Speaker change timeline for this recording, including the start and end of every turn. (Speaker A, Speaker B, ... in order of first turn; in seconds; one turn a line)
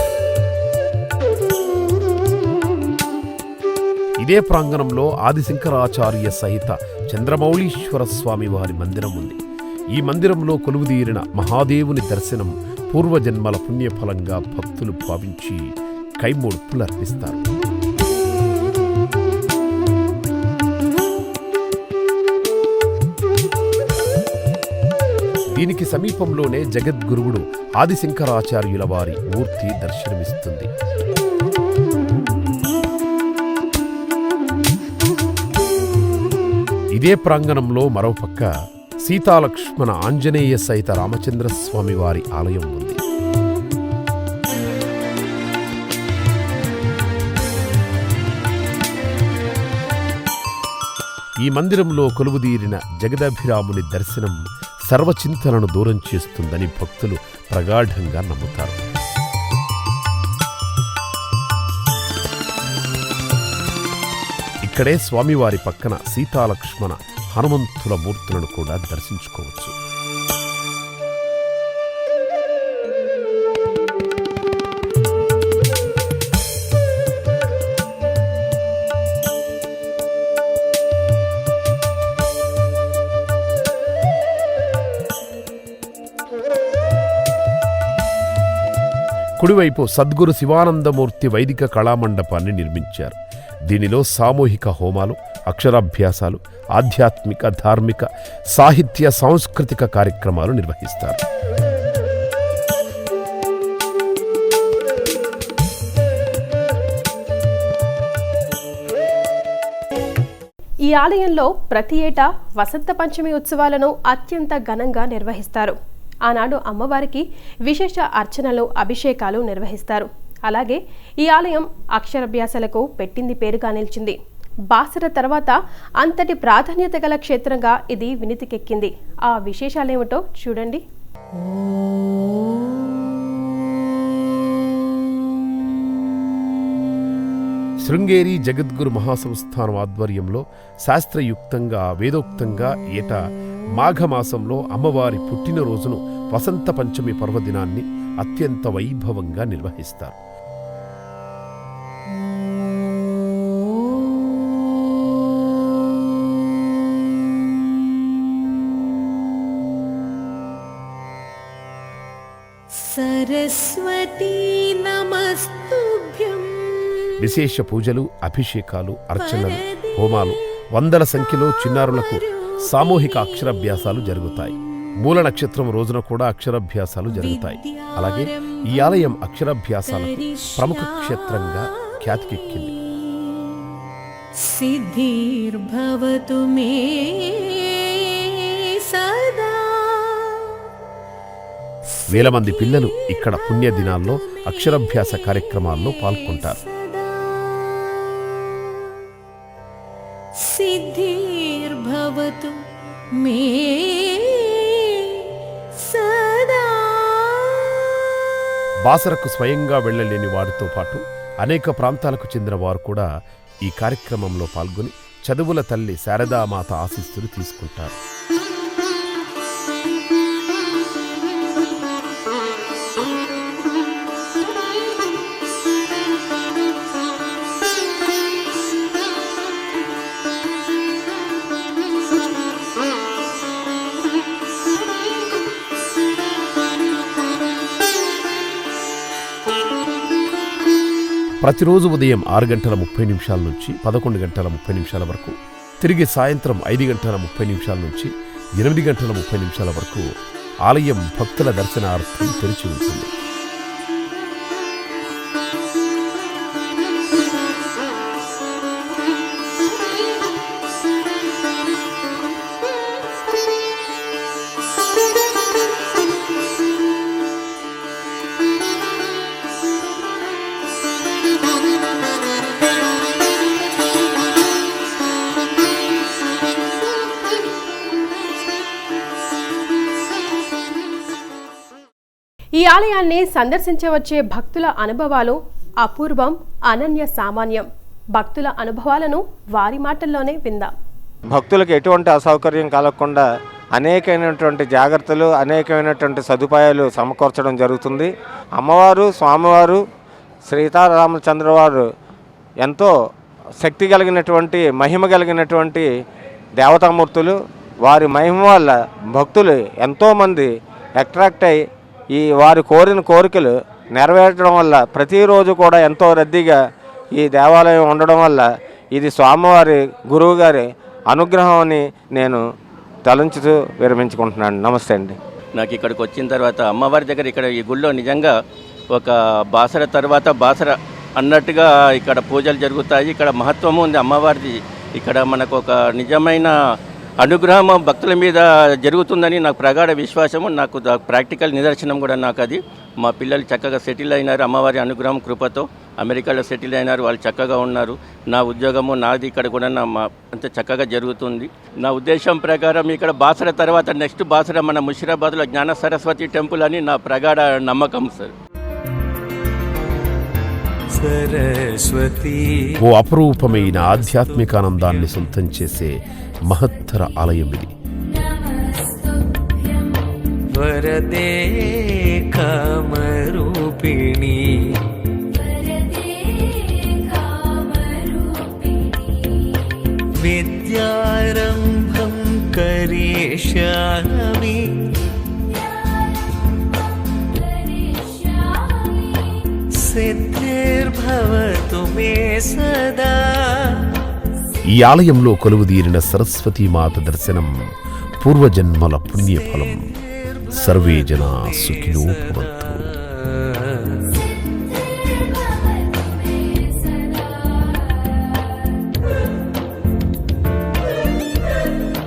Speaker A: 4.2-9.4
Speaker A: 10.0-15.7
Speaker A: 16.2-17.4
Speaker A: 25.6-30.7
Speaker A: 37.0-38.5
Speaker A: 39.0-43.0
Speaker A: 51.4-58.8
Speaker A: 64.6-69.7
Speaker A: 89.4-93.2
Speaker A: 93.7-101.2
Speaker B: 110.9-115.8
Speaker B: 116.3-124.2
Speaker B: 124.7-130.8
Speaker C: 131.4-133.4
Speaker A: 137.8-150.2
Speaker C: 154.1-154.6
Speaker C: 155.7-156.1
Speaker C: 162.9-167.1
Speaker A: 167.2-182.8
Speaker C: 169.4-169.9
Speaker C: 177.2-178.9
Speaker C: 179.9-180.8
Speaker C: 181.5-181.8
Speaker C: 182.9-183.8
Speaker C: 184.5-190.5
Speaker A: 192.1-196.6
Speaker C: 196.5-197.9
Speaker C: 200.5-202.6
Speaker C: 203.2-207.8
Speaker A: 208.8-213.1
Speaker A: 213.7-218.0
Speaker A: 241.4-250.1
Speaker A: 250.7-253.1
Speaker B: 282.6-290.7
Speaker D: 291.3-299.8
Speaker D: 300.5-301.9
Speaker D: 302.6-302.9
Speaker D: 303.6-305.9
Speaker D: 306.6-311.6
Speaker D: 312.1-316.6
Speaker D: 317.1-322.4
Speaker D: 323.1-325.1
Speaker E: 325.6-328.3
Speaker E: 328.9-336.5
Speaker E: 337.2-358.3
Speaker F: 360.9-362.8
Speaker A: 362.8-367.7
Speaker F: 363.4-365.2
Speaker F: 370.5-374.9
Speaker F: 380.0-384.9
Speaker F: 389.7-394.0
Speaker A: 394.7-397.5
Speaker A: 398.2-399.9
Speaker F: 399.2-404.2
Speaker A: 400.5-402.9